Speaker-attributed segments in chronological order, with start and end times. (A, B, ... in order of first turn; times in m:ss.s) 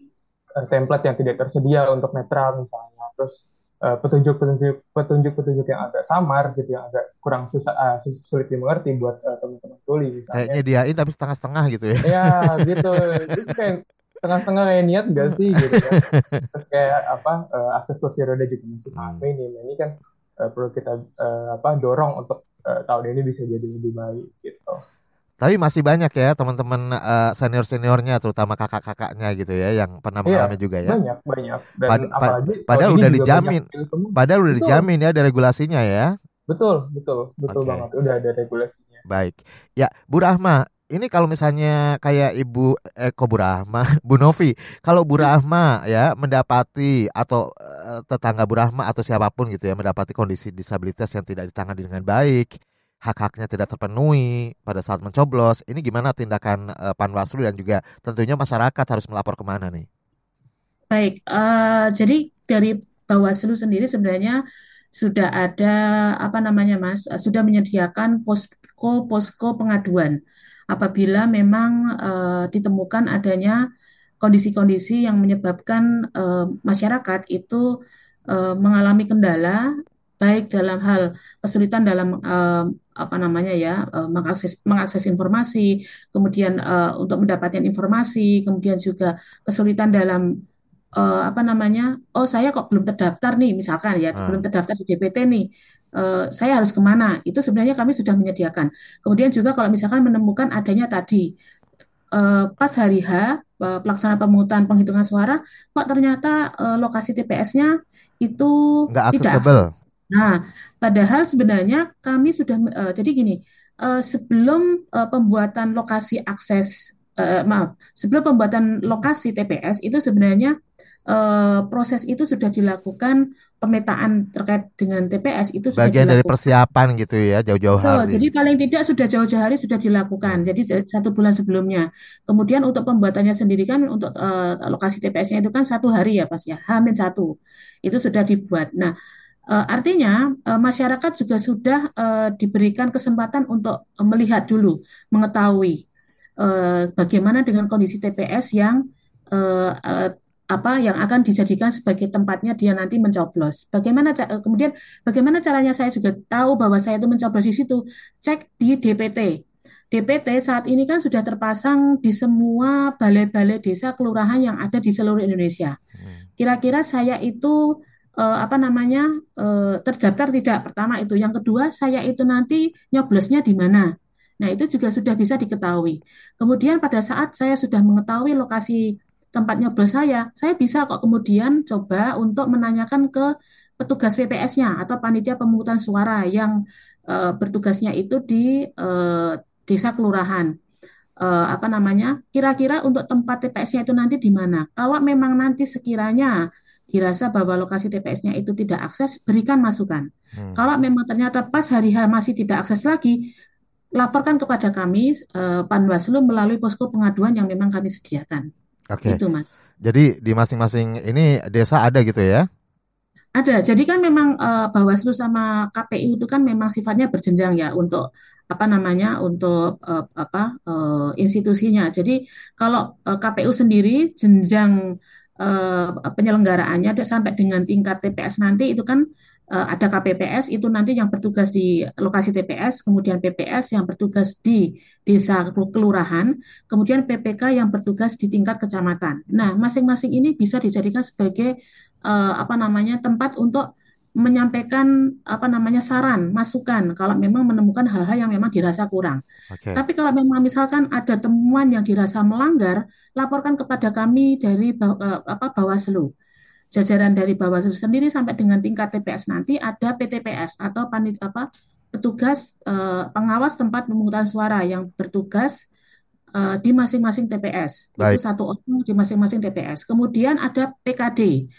0:00.6-0:10.6 A
0:10.3-0:13.6 B
0:12.0-0:16.0 A
0:15.6-0:16.5 B
0:16.5-0:24.8 A
0:19.0-0:19.2 B
0:25.4-0:31.0 B
0:30.3-0:34.9 A
0:31.9-0:33.6 B
0:34.2-0:36.1 B
0:36.5-0:39.0 A
0:37.5-0:37.9 B
0:39.1-0:52.5 B
0:53.0-0:59.9 B
1:00.9-1:04.4 C
1:05.0-1:10.2 C
1:10.7-1:13.6 C
1:14.2-1:17.6 C
1:18.3-1:19.6 C
1:20.2-1:30.2 C
1:31.0-1:35.4 C
1:34.2-1:34.4 B
1:36.0-1:41.2 C
1:42.2-1:47.7 C
1:48.2-1:48.5 C
1:48.9-1:49.7 B
1:49.1-2:00.5 C
2:01.1-2:06.4 C
2:05.8-2:08.3 B
2:07.8-2:17.3 C
2:17.9-2:18.9 C
2:19.5-2:25.8 C
2:26.4-2:28.8 C
2:29.3-2:39.3 C
2:39.9-2:45.8 C
2:46.0-2:46.2 B
2:46.4-2:47.6 C
2:48.2-2:53.9 C
2:54.4-2:58.8 C
2:59.4-3:03.3 C
3:03.8-3:06.5 C
3:07.1-3:10.5 C
3:11.2-3:16.4 C
3:16.9-3:23.2 C
3:20.4-3:20.6 B
3:24.0-3:28.5 C
3:28.9-3:29.2 B
3:29.0-3:29.5 C
3:29.8-3:32.5 B
3:33.4-3:44.8 C
3:45.4-3:49.0 C
3:49.5-4:01.5 C
4:02.1-4:03.6 C
4:04.2-4:09.2 C
4:09.5-4:09.8 B
4:09.8-4:16.1 C
4:16.8-4:25.6 C
4:26.4-4:31.3 C